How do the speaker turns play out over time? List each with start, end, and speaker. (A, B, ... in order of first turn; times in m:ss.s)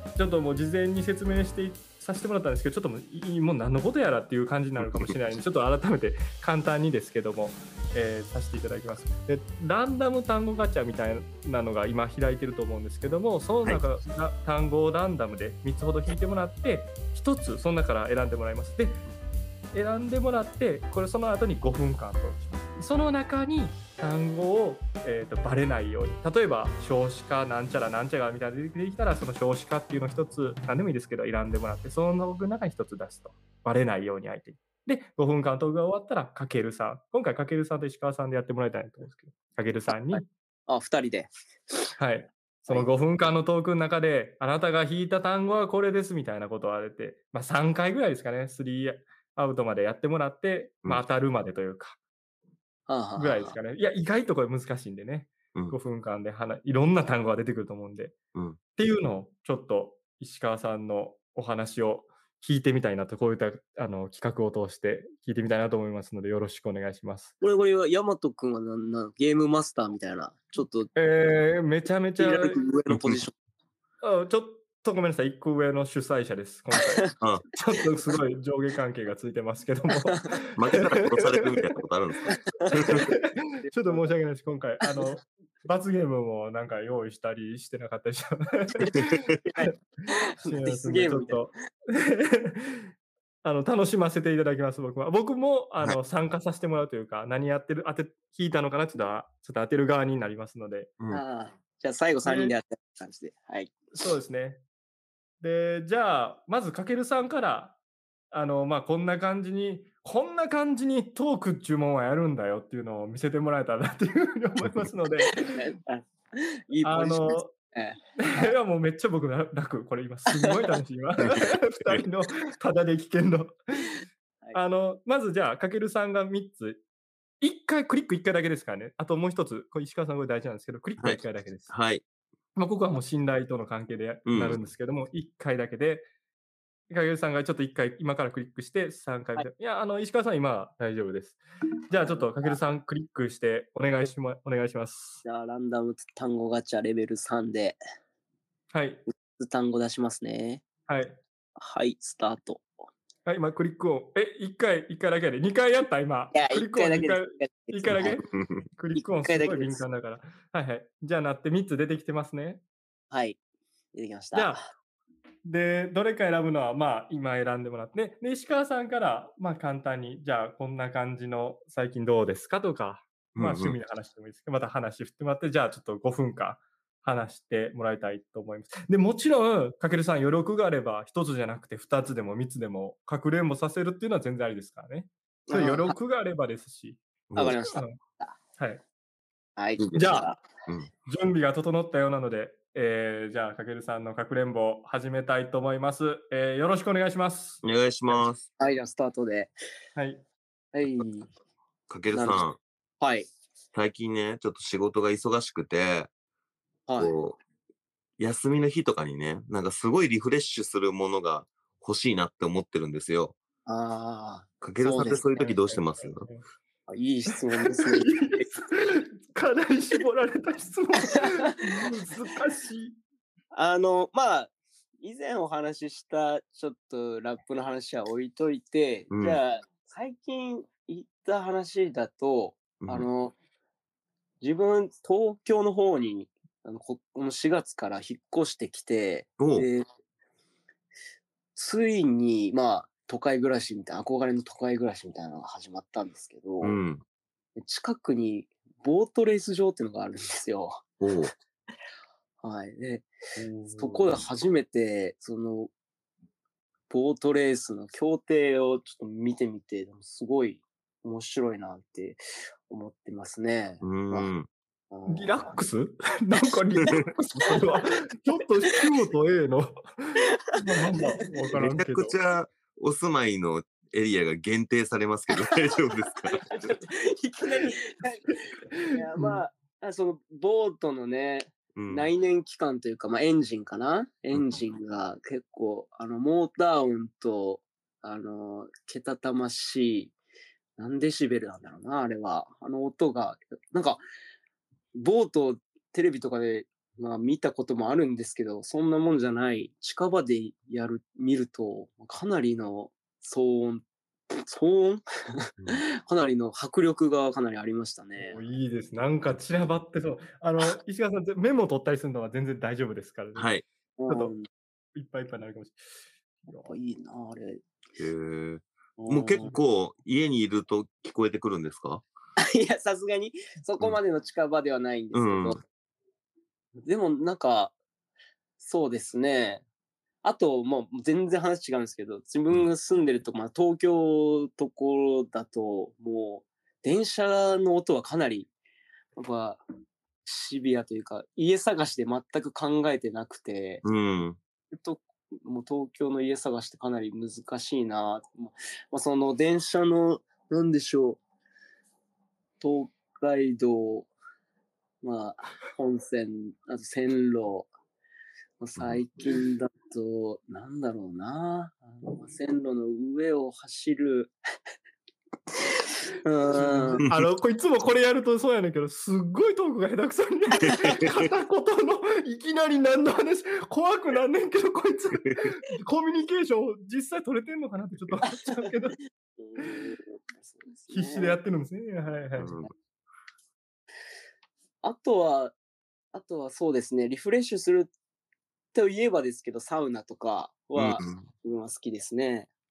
0:00.2-0:19.0 A
0:04.8-0:05.1 B
0:19.7-0:40.3 A
0:40.1-0:41.9 C
0:42.0-0:52.0 A
0:52.9-0:53.6 C
0:53.2-0:58.2 A
0:58.8-1:07.3 A
1:07.4-1:10.9 C
1:11.0-1:12.6 A
1:12.2-1:13.3 C
1:12.9-1:13.2 B
1:14.0-1:21.6 A
1:20.6-1:23.1 B
1:22.3-1:32.9 A
1:23.7-1:24.0 C
1:24.8-1:25.1 C
1:29.4-1:31.5 C
1:33.4-1:40.9 A
1:41.1-1:43.8 C
1:42.2-1:42.6 A
1:44.0-1:44.6 A
1:45.4-1:47.8 A
1:48.3-1:55.7 A
1:55.3-1:58.4 C
1:56.8-1:57.6 A
1:58.2-2:04.0 A
2:00.4-2:00.8 C
2:01.4-2:02.0 B
2:04.5-2:06.8 A
2:07.4-2:11.7 A
2:11.0-2:12.0 B
2:12.6-2:16.1 A
2:14.3-2:14.6 B
2:16.9-2:25.2 A
2:22.0-2:22.6 C
2:25.2-2:27.8 C
2:28.7-2:29.0 A
2:29.4-2:30.6 C
2:30.9-2:31.2 A
2:31.6-2:32.7 C
2:33.3-2:42.6 A
2:36.3-2:38.2 C
2:37.9-2:38.6 B
2:39.0-2:39.8 C
2:43.1-2:43.4 C
2:43.9-2:44.6 C
2:44.3-2:44.6 A
2:45.4-3:07.0 A
2:53.4-2:53.8 B
3:05.5-3:06.0 C
3:07.3-3:07.6 B
3:07.4-3:08.4 C
3:07.7-3:08.0 A
3:08.6-3:08.8 A
3:09.6-3:10.4 C
3:09.9-3:10.4 A
3:11.1-3:18.3 A
3:17.6-3:18.5 B
3:18.6-3:19.5 C
3:20.0-3:20.2 A
3:20.7-3:21.3 C
3:21.9-3:22.6 B
3:22.1-3:22.4 C
3:23.0-3:23.3 C
3:23.7-3:26.1 B
3:26.9-3:27.1 C
3:27.0-3:27.4 B
3:28.2-3:33.4 B
3:33.7-3:35.6 C
3:34.6-3:36.3 B
3:35.5-3:36.4 A
3:36.9-3:38.5 C
3:37.3-3:43.0 A
3:41.1-3:41.5 C
3:43.5-3:53.4 C
3:49.1-3:49.4 B
3:52.8-3:53.1 B
3:54.4-3:59.8 C
3:59.4-3:59.7 B
4:01.6-4:06.8 C
4:06.6-4:07.0 B
4:07.6-4:10.9 C
4:11.0-4:11.3 B
4:12.4-4:13.1 C
4:13.4-4:14.2 A
4:13.7-4:15.7 C
4:16.9-4:24.3 C
4:23.8-4:24.5 B
4:24.9-4:25.5 C
4:25.1-4:32.2 A
4:27.5-4:27.8 C
4:30.6-4:31.0 C
4:31.5-4:36.8 B
4:36.3-4:50.1 C
4:38.7-4:39.4 A
4:41.8-4:42.1 B
4:50.8-4:54.0 C
4:55.0-5:08.4 C
5:08.2-5:13.5 A
5:13.4-5:13.6 B
5:14.0-5:14.5 C
5:14.1-5:14.3 A
5:15.0-5:15.8 A
5:16.4-5:16.7 A
5:16.6-5:17.6 C
5:18.0-5:22.0 B
5:19.0-5:19.6 C
5:22.4-5:25.6 C
5:25.1-5:25.6 B
5:26.8-5:27.8 C
5:28.6-5:29.6 C
5:30.2-5:38.5 C
5:39.2-5:39.6 C
5:40.2-5:43.8 C
5:43.8-5:44.4 B
5:44.7-5:51.2 C
5:52.6-5:54.1 C
5:55.0-5:57.7 C
5:58.6-6:04.4 C
5:58.8-5:59.0 B
6:05.7-6:07.0 C
6:06.5-6:19.0 A
6:10.7-6:11.2 B
6:18.4-6:18.7 C
6:19.4-6:21.4 C
6:19.6-6:19.9 A
6:20.9-6:22.6 A
6:22.4-6:22.7 B
6:24.8-6:25.5 C
6:26.1-6:27.9 C
6:28.7-6:32.5 C
6:30.8-6:31.3 B